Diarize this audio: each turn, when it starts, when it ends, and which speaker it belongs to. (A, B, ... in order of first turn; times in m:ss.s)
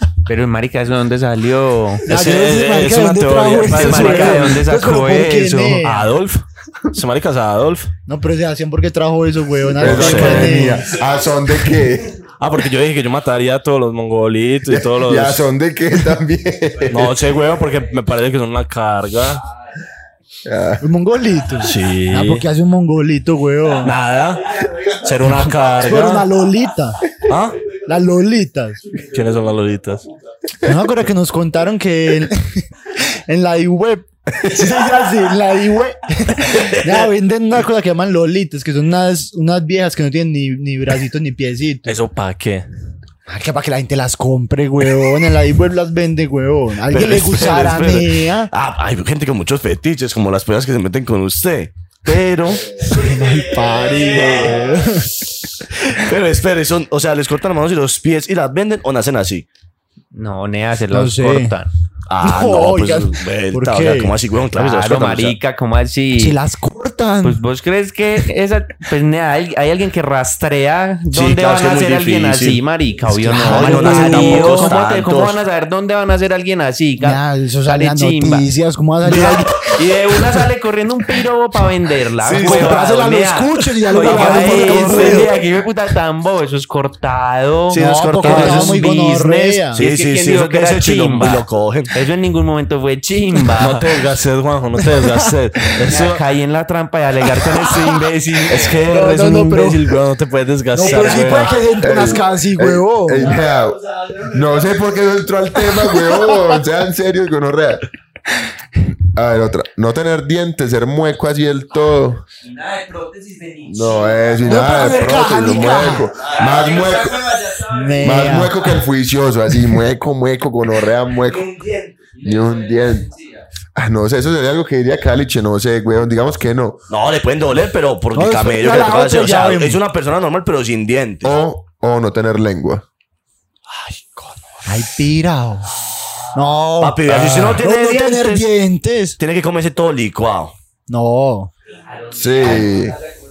0:00.2-0:02.0 A
0:02.1-0:04.7 B
0:02.1-0:06.1 C
0:03.6-0:05.8 A
0:05.8-0:07.9 B
0:08.1-0:11.0 C
0:09.8-0:10.8 B
0:09.8-0:12.2 D
0:12.4-0:15.4 B
0:14.7-0:17.2 D
0:16.9-0:19.4 B
0:20.4-0:20.8 D
0:20.8-0:24.0 C
0:21.6-0:22.4 B
0:23.8-0:26.3 B
0:25.2-0:27.1 C
0:27.2-0:27.7 B
0:27.8-0:29.0 C
0:29.0-0:30.0 B
0:30.6-0:42.0 C
0:41.8-0:42.7 B
0:43.3-0:48.5 C
0:46.9-0:52.8 E
0:52.8-0:55.3 C
0:53.6-0:54.7 E
0:55.6-0:59.4 E
1:00.1-1:01.7 A
1:00.9-1:01.5 C
1:02.1-1:05.3 E
1:02.2-1:04.1 C
1:04.6-1:06.4 A
1:06.2-1:07.4 C
1:07.2-1:18.4 A
1:11.1-1:12.6 E
1:13.0-1:14.8 C
1:13.4-1:15.4 E
1:17.0-1:19.6 C
1:19.0-1:19.7 E
1:19.7-1:33.9 A
1:22.3-1:25.4 C
1:24.0-1:25.3 B
1:27.7-1:28.8 E
1:27.7-1:29.8 C
1:28.2-1:28.7 B
1:29.7-1:31.9 E
1:33.6-1:36.2 B
1:34.8-1:35.3 C
1:35.8-1:38.8 A
1:37.6-1:37.8 C
1:38.5-1:41.7 B
1:38.6-1:40.0 C
1:40.7-1:43.4 C
1:41.8-1:47.8 D
1:44.1-1:44.5 E
1:46.0-1:46.4 C
1:49.0-1:52.2 D
1:52.4-1:54.6 A
1:53.6-1:57.4 D
1:54.4-1:56.1 C
1:56.2-1:56.6 E
1:56.6-1:58.2 A
1:57.7-1:58.6 C
1:58.0-2:01.6 D
2:01.3-2:02.1 E
2:02.1-2:03.3 A
2:02.2-2:03.1 D
2:03.7-2:06.8 D
2:06.9-2:11.4 E
2:08.1-2:09.8 C
2:11.2-2:12.8 D
2:13.7-2:14.6 E
2:14.6-2:15.7 C
2:16.3-2:19.2 C
2:16.8-2:18.5 E
2:19.2-2:20.5 E
2:20.9-2:21.5 C
2:22.1-2:23.0 D